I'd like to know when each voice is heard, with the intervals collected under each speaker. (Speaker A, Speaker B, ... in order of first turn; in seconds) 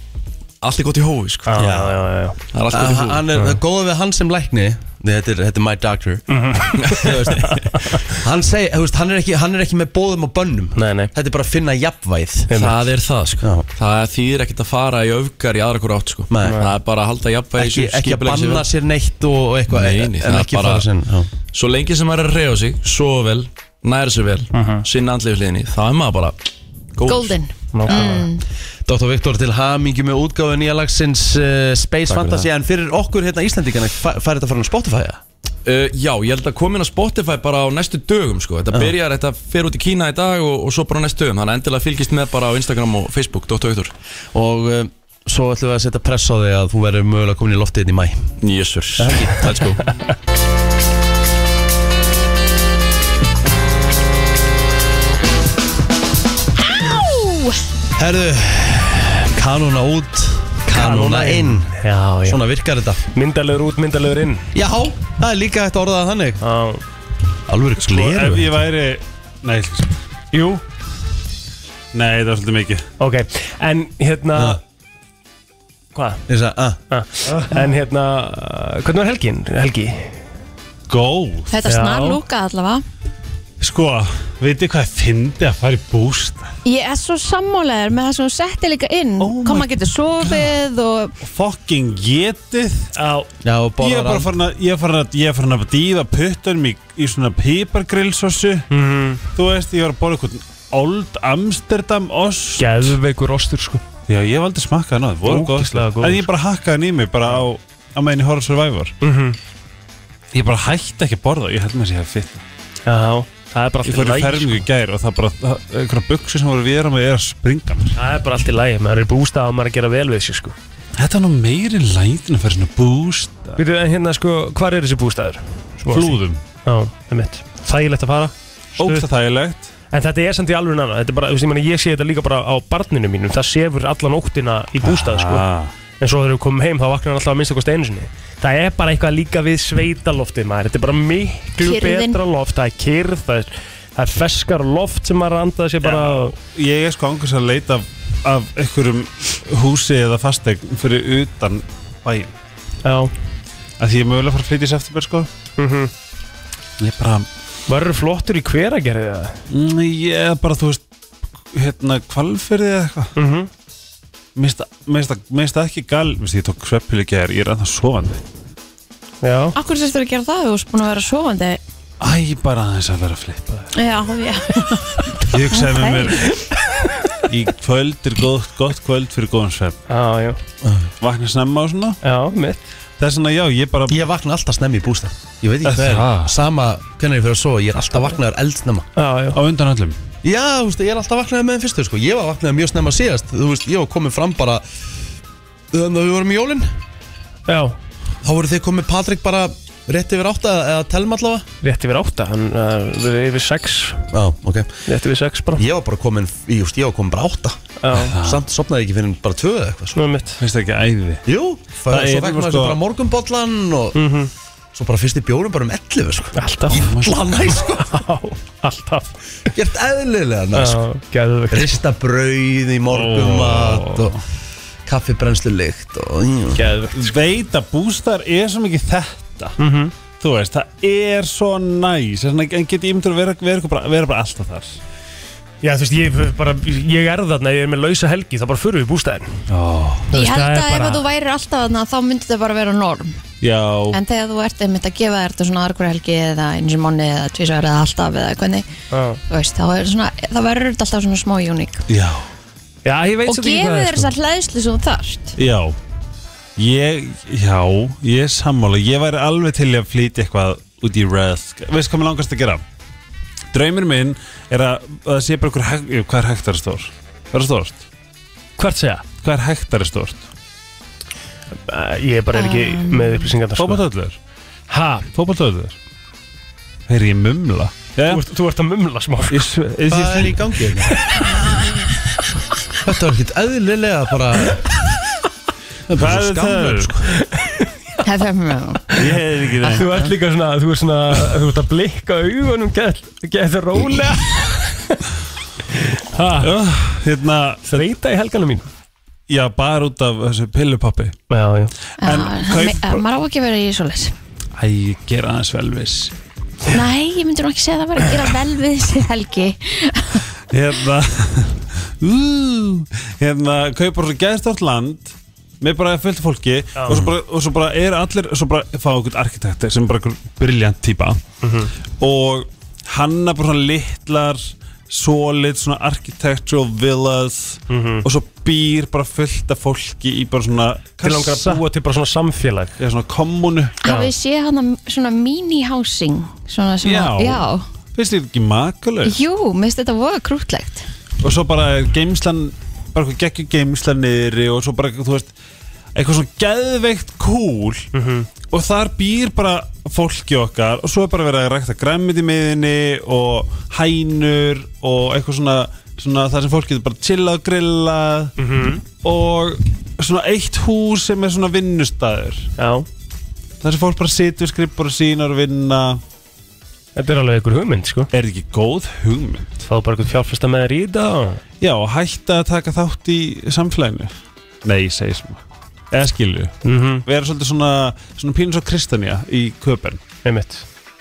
Speaker A: 0.6-1.7, 2.5-3.2, 12.5-18.7, 19.7-20.9, 21.5-26.4, 26.9-27.4, 35.6-43.9, 48.4-49.8
Speaker B: 1.5-2.4, 6.3-7.5, 10.8-11.1, 12.5-12.8, 16.4-16.7, 24.5-24.8, 27.7-28.3, 60.7-62.4, 63.1-64.5, 66.4-66.8, 70.3-70.6, 73.0-74.6, 76.0-76.2, 76.9-80.1, 81.7-82.2, 93.0-93.3, 98.7-99.2, 102.6-103.8, 105.2-106.3, 109.0-109.4, 112.9-114.7, 118.0-120.5, 123.6-129.1, 129.9-135.5, 136.0-146.4, 152.8-153.1, 155.6-155.9, 157.7-159.4, 163.2-163.5, 169.2-169.6, 179.9-180.4, 182.0-182.7, 189.0-189.4, 197.5-197.8, 201.6-204.1, 204.9-205.6, 207.8-208.2, 209.9-210.4, 213.9-214.3, 216.4-216.9, 217.8-219.1, 220.5-221.8, 226.5-227.2, 229.6-229.9, 235.6-239.4, 240.1-241.0, 248.9-249.2, 252.8-254.1, 268.6-269.1, 271.6-273.8, 274.7-275.1, 278.1-279.5, 280.9-281.3, 287.2-287.7, 289.6-295.0, 296.0-296.5, 297.7-298.7, 301.3-301.7, 316.8-317.0, 321.4-321.7, 327.7-328.1, 331.0-332.8, 347.9-348.3, 358.4-358.8, 362.6-362.9, 367.0-368.1, 369.7-371.4, 376.6-377.0, 380.2-380.6
Speaker C: 1.6-2.0, 2.7-12.5, 13.4-13.7, 16.3-16.7, 17.6-21.3, 28.9-35.2, 44.3-48.3, 49.0-49.7, 58.0-63.0, 64.5-66.4, 67.5-68.5, 76.3-76.8, 93.4-94.3, 183.9-188.9, 190.2-194.6, 195.7-196.7, 198.2-201.5, 204.1-204.8, 205.6-207.7, 208.2-210.0, 211.3-214.0, 214.7-218.0, 219.5-220.8, 221.5-224.2, 224.9-226.6, 279.9-281.0, 282.8-284.7, 285.9-287.1, 316.9-317.1
Speaker D: 27.1-28.4, 56.6-57.6, 81.5-82.8, 86.7-91.2, 141.6-142.2, 169.5-171.6, 173.8-174.8, 175.5-176.2, 240.1-243.2, 243.9-248.7, 249.3-251.8, 253.3-255.3, 272.3-273.3, 288.0-288.9, 302.0-304.1, 306.7-310.2, 333.8-337.7, 339.0-340.9
Speaker E: 67.9-70.0, 71.9-72.9, 80.9-81.5, 83.6-86.5, 89.2-89.7, 90.2-90.5, 91.2-92.9, 93.8-98.7, 99.3-103.0, 104.1-109.0, 110.3-112.5, 113.8-118.0, 121.0-123.6, 125.8-126.4, 128.8-129.7, 134.8-135.7, 145.8-152.3, 153.8-155.3, 156.8-157.3, 159.5-160.8, 161.5-163.1, 164.3-168.2, 172.0-173.7, 175.2-176.3, 177.3-179.8, 181.0-182.0, 183.0-184.0, 185.7-186.4, 189.3-190.0, 207.9-208.4, 210.4-211.2, 211.9-212.8, 222.9-224.2, 226.9-229.6, 230.1-234.8, 239.5-240.1, 243.4-244.0, 251.9-252.3, 255.4-255.8, 256.6-262.6, 263.5-267.9, 269.2-270.3, 273.6-274.2, 275.1-275.8, 276.9-278.2, 279.3-280.4, 285.9-286.9, 289.0-289.9, 296.4-297.9, 299.3-301.2, 302.0-303.0, 304.6-306.1, 310.5-321.2, 322.0-331.7, 332.8-334.1, 336.8-339.1, 341.2-345.3, 345.9-347.9, 348.4-358.3, 358.9-362.5, 363.6-366.0, 368.1-369.6, 371.6-380.0